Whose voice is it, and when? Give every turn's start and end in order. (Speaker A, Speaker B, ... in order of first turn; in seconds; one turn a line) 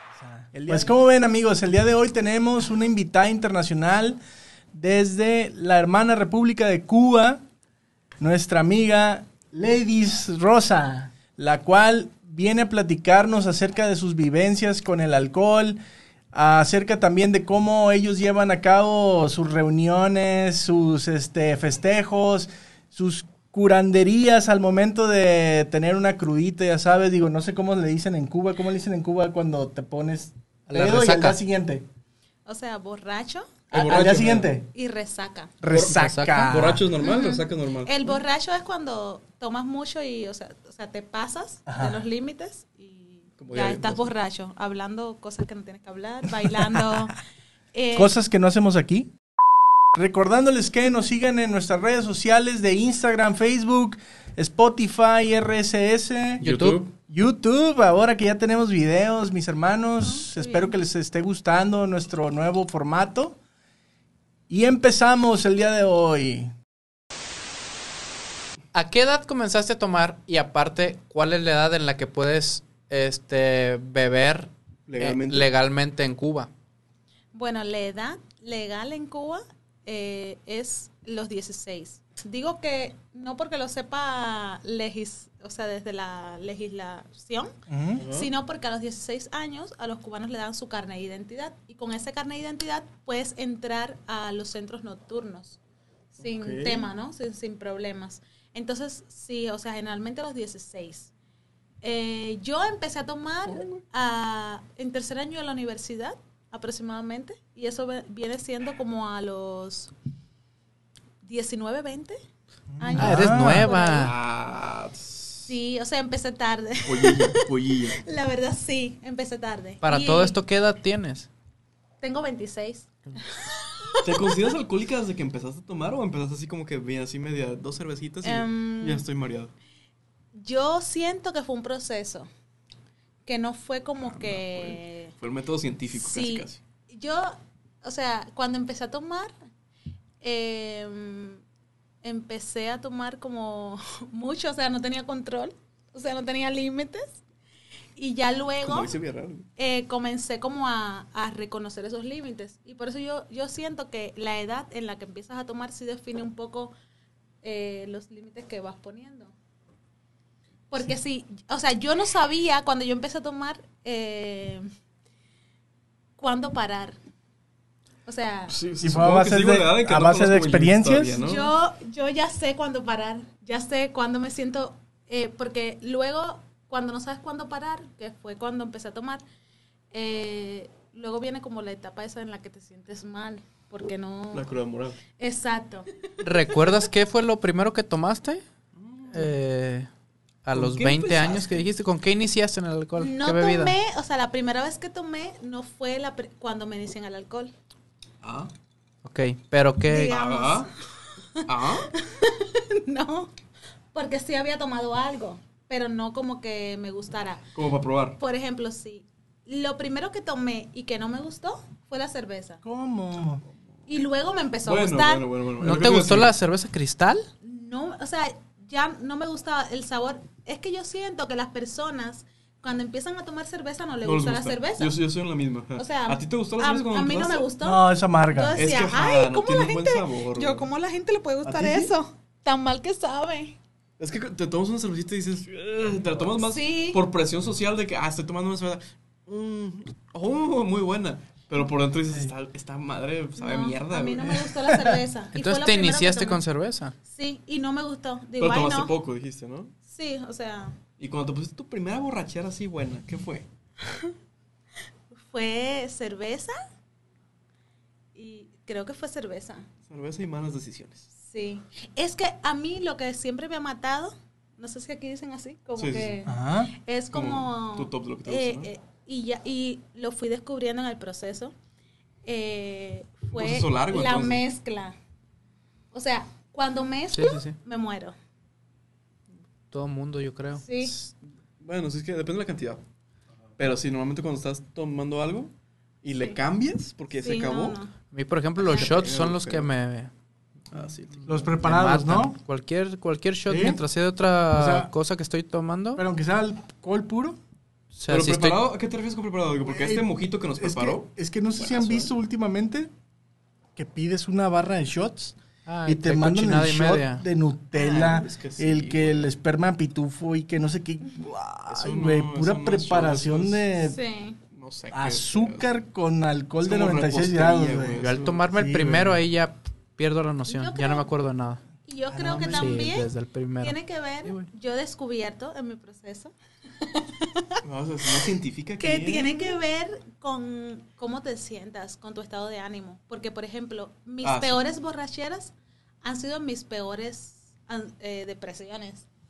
Speaker A: 0.5-0.9
Speaker B: 0.6-4.2
Speaker B: 4.7-7.4
Speaker B: 8.2-15.8
Speaker B: 16.3-31.9
Speaker C: 30.7-31.4
Speaker D: 32.5-34.0
Speaker A: 33.7-34.5
Speaker B: 33.7-34.7
Speaker D: 34.7-35.5
Speaker B: 35.6-36.9
Speaker A: 35.7-38.2
Speaker C: 35.9-36.6
Speaker D: 37.0-47.2
Speaker B: 41.7-42.0
Speaker A: 43.4-44.1
Speaker D: 47.7-48.2
Speaker B: 48.0-49.1
Speaker B: 49.9-56.5
Speaker A: 56.4-56.9
Speaker C: 56.4-56.8
Speaker B: 57.1-63.4
Speaker D: 60.0-60.8
Speaker B: 64.5-66.5
Speaker C: 68.7-76.5
Speaker A: 74.9-75.5
Speaker D: 77.3-95.6
Speaker B: 87.7-88.0
Speaker A: 88.0-88.3
Speaker D: 96.1-101.1
Speaker A: 96.2-96.9
Speaker D: 101.8-109.9
Speaker A: 103.5-103.8
Speaker D: 111.2-112.2
Speaker B: 112.7-113.7
Speaker D: 112.8-114.1
Speaker C: 113.0-114.1
Speaker A: 114.0-115.5
Speaker D: 115.5-120.4
Speaker A: 116.8-118.0
Speaker C: 119.8-121.3
Speaker D: 122.0-124.2
Speaker A: 124.0-129.5
Speaker D: 128.2-129.1
Speaker D: 130.3-132.3
Speaker D: 133.3-135.1
Speaker A: 134.0-136.6
Speaker D: 135.9-139.3
Speaker D: 140.2-141.4
Speaker D: 142.0-147.2
Speaker D: 148.0-148.9
Speaker A: 148.6-149.5
Speaker D: 149.6-156.7
Speaker D: 157.4-159.3
Speaker D: 160.7-164.7
Speaker D: 166.2-167.0
Speaker D: 168.1-168.6
Speaker A: 168.5-171.5
Speaker B: 168.8-171.2
Speaker D: 171.2-179.2
Speaker D: 179.9-184.5
Speaker A: 184.3-185.0
Speaker D: 185.2-185.9
Speaker C: 186.2-188.4
Speaker A: 188.8-189.3
Speaker C: 189.1-189.9
Speaker C: 190.4-193.7
Speaker A: 190.5-191.7
Speaker D: 193.0-197.5
Speaker A: 198.2-198.5
Speaker C: 199.0-200.2
Speaker D: 199.9-203.3
Speaker A: 200.0-200.7
Speaker A: 201.5-201.9
Speaker D: 203.9-207.4
Speaker A: 207.6-208.2
Speaker D: 208.2-212.6
Speaker B: 212.6-213.4
Speaker D: 213.9-215.3
Speaker A: 214.7-216.3
Speaker C: 215.6-217.3
Speaker D: 217.4-224.9
Speaker A: 224.0-227.4
Speaker D: 225.8-233.6
Speaker B: 227.6-228.6
Speaker A: 228.5-230.7
Speaker A: 231.4-231.9
Speaker A: 234.0-244.5
Speaker D: 236.4-237.0
Speaker D: 243.4-246.4
Speaker B: 244.7-245.0
Speaker C: 245.3-246.9
Speaker D: 247.1-248.9
Speaker A: 248.4-249.7
Speaker D: 249.9-250.8
Speaker A: 251.0-253.5
Speaker D: 255.2-256.6
Speaker D: 258.1-259.7
Speaker A: 259.9-261.1
Speaker D: 261.2-271.5
Speaker A: 265.8-266.2
Speaker B: 266.3-266.7
Speaker A: 267.1-268.7
Speaker D: 272.2-274.9
Speaker A: 273.3-274.4
Speaker D: 275.9-278.1
Speaker C: 277.1-277.6
Speaker C: 279.7-280.9
Speaker D: 280.6-280.9
Speaker A: 281.6-282.8
Speaker A: 283.6-285.5
Speaker A: 286.0-287.8
Speaker D: 287.2-287.9
Speaker C: 288.1-290.1
Speaker A: 288.6-289.7
Speaker A: 290.7-291.5
Speaker C: 291.2-296.0
Speaker B: 291.3-292.4
Speaker B: 293.5-293.8
Speaker B: 294.5-294.9
Speaker B: 296.0-297.4
Speaker C: 297.9-298.6
Speaker A: 298.1-302.1
Speaker B: 299.6-302.9
Speaker B: 303.8-314.0
Speaker C: 305.7-307.2
Speaker A: 307.7-309.3
Speaker A: 311.7-313.6
Speaker D: 313.8-314.4
Speaker A: 314.5-315.7
Speaker B: 314.9-319.2
Speaker A: 316.6-318.5
Speaker C: 318.0-321.6
Speaker D: 320.5-321.1
Speaker D: 321.9-323.1
Speaker A: 322.3-322.9
Speaker C: 322.3-324.5
Speaker D: 323.6-327.6
Speaker A: 327.6-329.6
Speaker D: 328.8-339.1
Speaker A: 334.2-334.6